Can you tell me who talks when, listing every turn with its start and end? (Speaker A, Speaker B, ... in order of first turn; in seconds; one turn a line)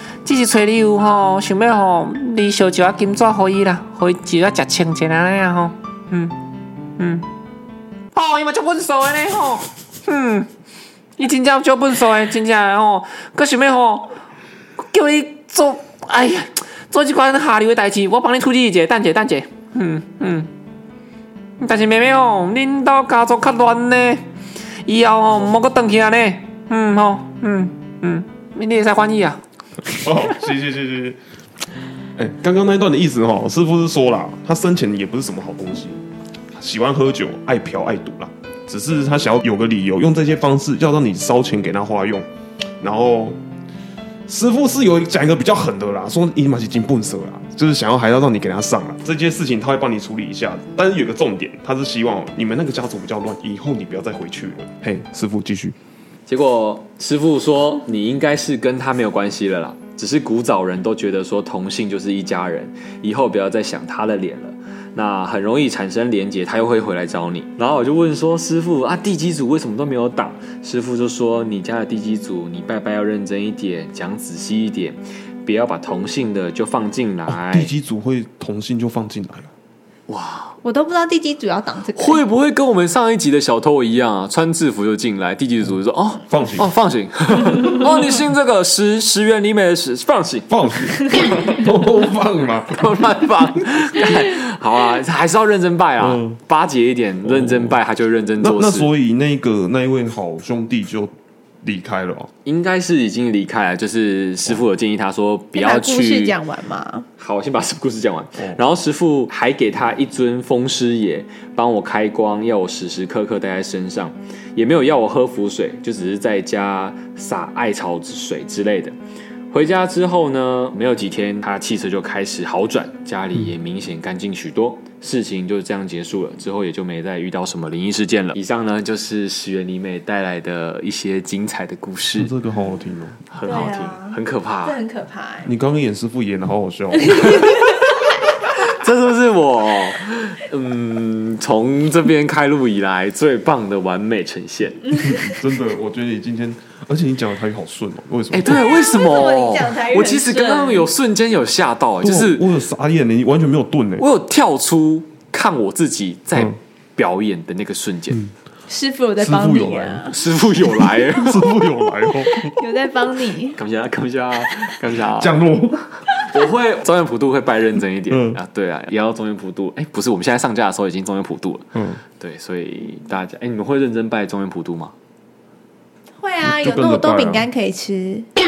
Speaker A: 0.2-6.3
Speaker A: 7.0-7.2
Speaker A: 8.1-10.5
Speaker A: 11.2-14.1
Speaker A: 14.8-20.5
Speaker A: 21.6-24.2
Speaker A: 24.8-29.4
Speaker B: 29.9-31.2
Speaker B: 32.1-36.0
Speaker B: 36.5-42.2
Speaker B: 42.8-43.4
Speaker B: 44.3-55.7
Speaker C: 56.3-77.7
Speaker B: 77.3-79.5
Speaker C: 80.1-80.6
Speaker D: 80.6-82.2
Speaker C: 82.0-91.6
Speaker B: 86.3-86.7
Speaker B: 90.5-93.3
Speaker C: 92.7-98.9
Speaker B: 96.0-96.4
Speaker B: 97.2-97.8
Speaker B: 98.4-102.3
Speaker C: 102.4-106.4
Speaker D: 105.5-107.1
Speaker C: 107.2-118.9
Speaker C: 119.5-132.3
Speaker B: 132.1-133.2
Speaker C: 133.3-134.8
Speaker D: 133.4-135.5
Speaker B: 135.4-137.5
Speaker C: 137.2-138.0
Speaker C: 138.6-145.0
Speaker B: 145.0-148.6
Speaker C: 148.3-152.4
Speaker D: 148.5-150.9
Speaker B: 152.0-154.1
Speaker C: 154.0-158.2
Speaker D: 158.7-160.1
Speaker B: 159.2-160.1
Speaker C: 160.1-161.4
Speaker B: 160.8-162.6
Speaker D: 162.6-163.6
Speaker C: 163.6-165.3
Speaker B: 165.1-165.9
Speaker C: 166.2-174.9
Speaker B: 168.1-168.4
Speaker B: 171.7-172.0
Speaker D: 176.2-178.3
Speaker B: 176.4-177.5